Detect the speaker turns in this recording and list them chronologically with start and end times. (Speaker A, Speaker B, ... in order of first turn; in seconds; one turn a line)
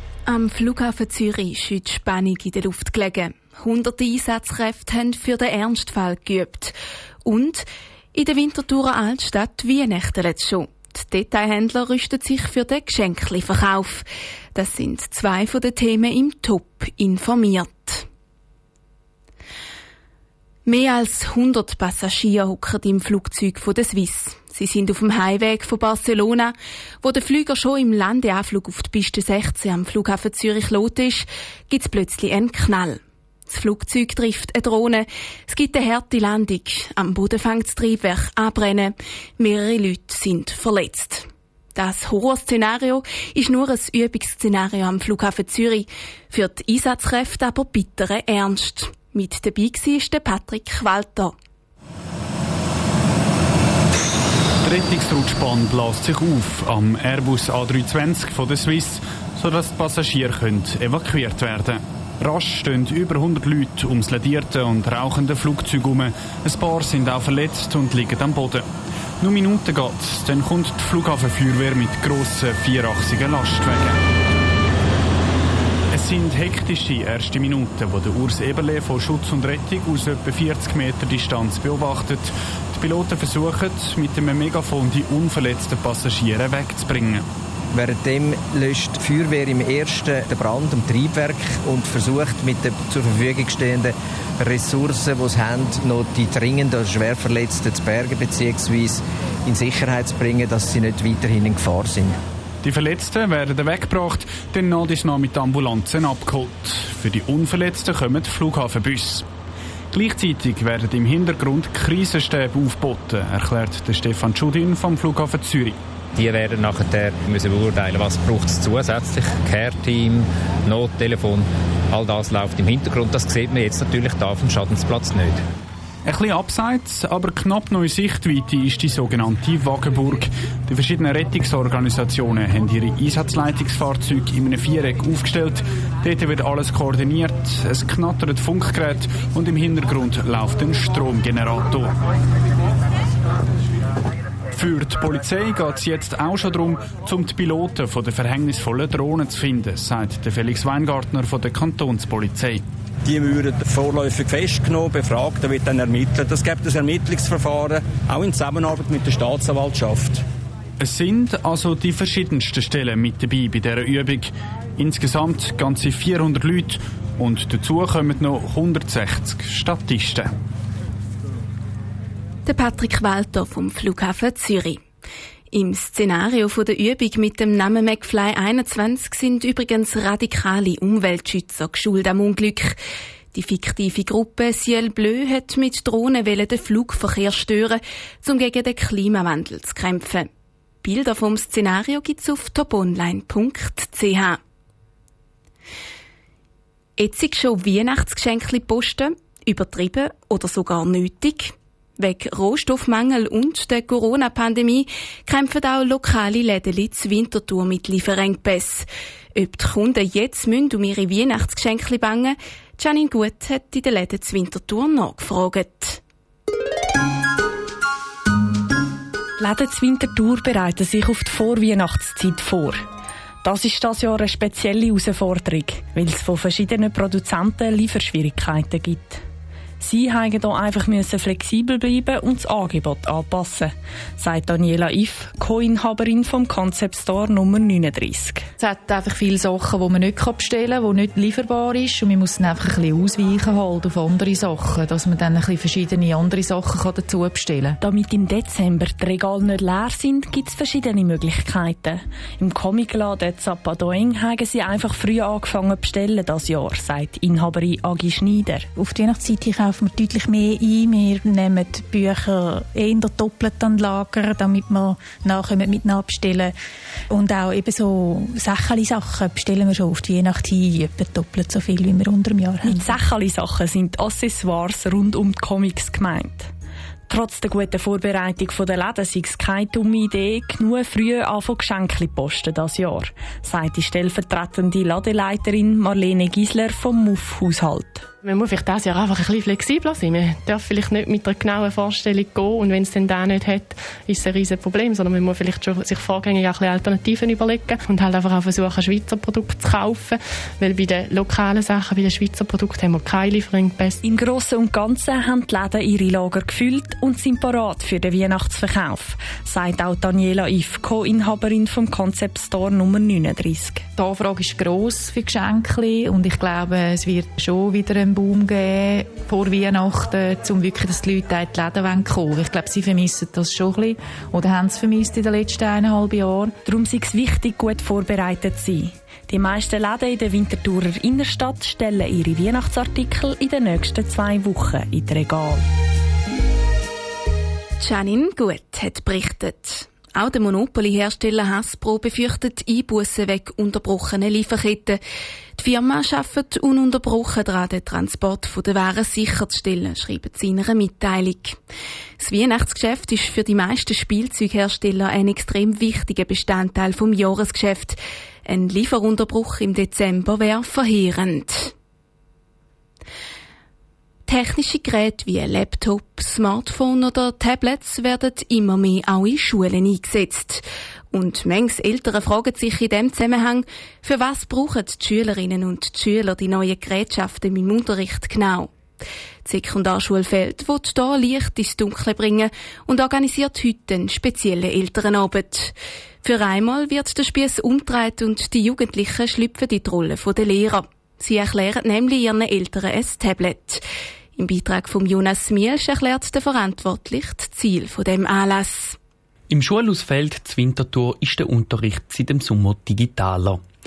Speaker A: 0.3-18.1
Speaker A: 20.6-51.3
Speaker B: 54.6-68.7
Speaker B: 69.2-74.0
Speaker B: 75.9-87.2
Speaker C: 87.7-102.1
Speaker B: 102.6-109.2
Speaker B: 109.9-115.8
Speaker D: 116.1-125.4
Speaker B: 126.0-141.9
Speaker B: 144.5-152.6
Speaker E: 153.0-160.2
Speaker B: 160.8-170.3
Speaker A: 172.5-174.8
Speaker A: 175.5-182.8
Speaker A: 183.3-190.3
Speaker A: 190.8-194.4
Speaker A: 197.0-216.0
Speaker F: 219.4-222.8
Speaker F: 223.4-229.2
Speaker F: 229.8-238.4
Speaker G: 238.6-247.8
Speaker F: 247.8-258.7
Speaker H: 258.7-266.5
Speaker H: 267.1-273.0
Speaker F: 272.6-276.5
Speaker F: 277.1-288.1
Speaker I: 288.2-304.0
Speaker F: 304.0-313.8
Speaker G: 313.9-326.5
Speaker F: 326.6-335.6
Speaker A: 337.8-345.0
Speaker A: 345.6-351.6
Speaker A: 352.2-361.7
Speaker A: 364.3-378.7
Speaker A: 379.4-393.8
Speaker A: 394.4-399.0
Speaker J: 399.5-403.6